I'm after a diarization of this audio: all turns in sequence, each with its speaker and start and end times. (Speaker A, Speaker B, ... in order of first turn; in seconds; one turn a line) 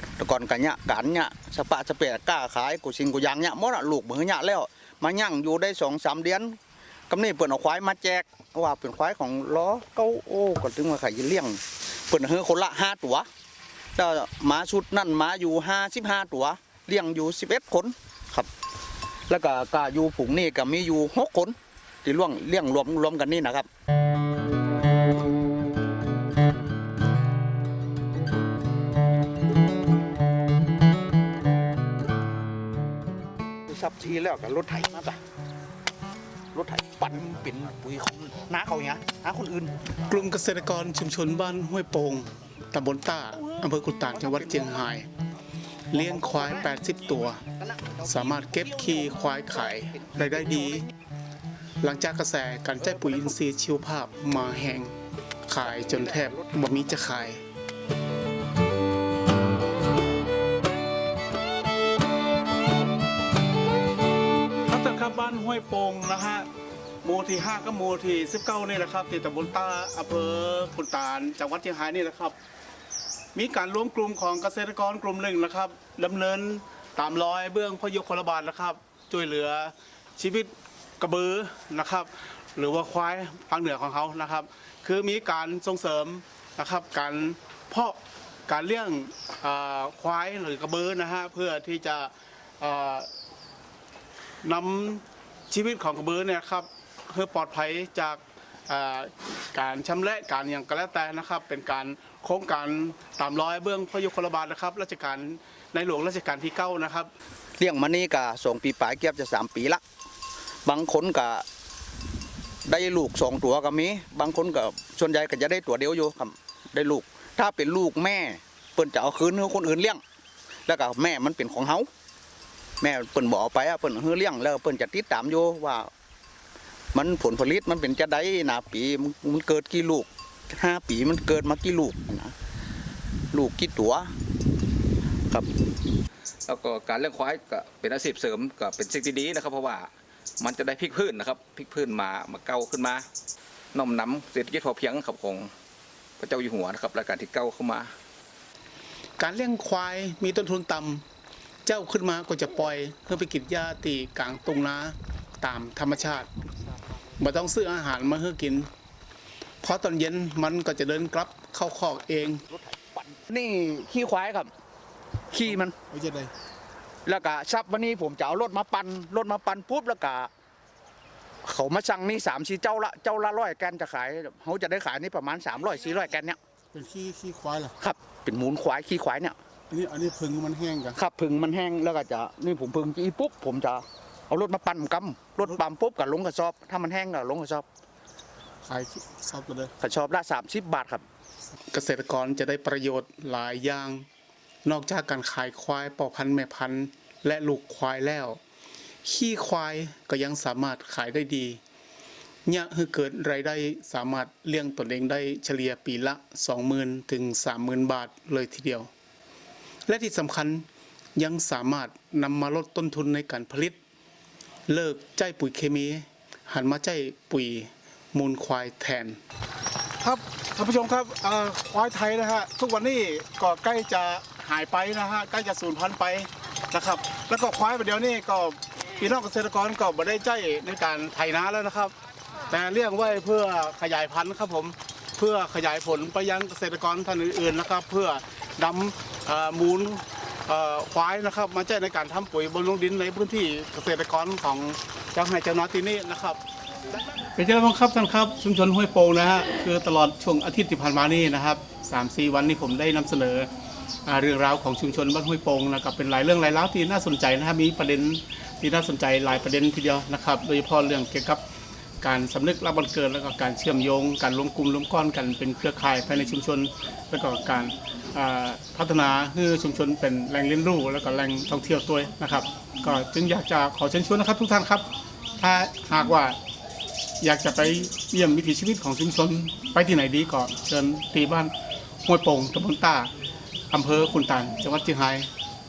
Speaker A: 0.2-6.6
Speaker A: 7.1-13.3
Speaker A: 13.9-18.5
Speaker A: 19.3-23.7
Speaker A: 33.7-35.2
Speaker A: 36.5-39.8
Speaker B: 40.1-45.1
Speaker A: 43.4-44.8
Speaker B: 45.9-47.4
Speaker A: 45.9-46.7
Speaker A: 47.5-50.8
Speaker B: 48.0-50.9
Speaker B: 51.8-54.9
Speaker A: 52.8-53.2
Speaker B: 55.5-57.4
Speaker A: 55.6-56.5
Speaker B: 64.7-66.5
Speaker B: 67.0-72.3
Speaker B: 73.3-93.1
Speaker B: 94.4-107.1
Speaker A: 107.6-109.8
Speaker A: 110.7-111.4
Speaker A: 112.7-120.0
Speaker A: 120.7-121.9
Speaker A: 122.8-125.9
Speaker A: 126.9-132.3
Speaker A: 133.3-134.1
Speaker C: 136.5-143.0
Speaker C: 143.7-145.5
Speaker C: 146.2-147.9
Speaker B: 149.2-151.0
Speaker B: 151.6-156.3
Speaker B: 157.2-158.7
Speaker B: 159.6-162.4
Speaker A: 162.4-164.5
Speaker A: 165.3-165.7
Speaker B: 165.4-166.3
Speaker A: 167.1-170.3
Speaker A: 171.4-176.4
Speaker B: 176.7-177.7
Speaker A: 177.8-179.3
Speaker B: 179.7-181.0
Speaker A: 180.9-187.7
Speaker B: 188.6-189.7
Speaker A: 189.8-191.0
Speaker B: 191.7-194.1
Speaker B: 194.6-198.4
Speaker B: 199.0-201.6
Speaker B: 202.4-208.9
Speaker B: 209.9-213.8
Speaker B: 214.7-219.2
Speaker B: 220.0-231.9
Speaker B: 232.5-246.4
Speaker B: 247.3-253.5
Speaker B: 254.1-261.4
Speaker B: 262.0-274.9
Speaker B: 275.4-276.4
Speaker B: 277.2-281.5
Speaker B: 282.0-283.1
Speaker B: 283.7-285.3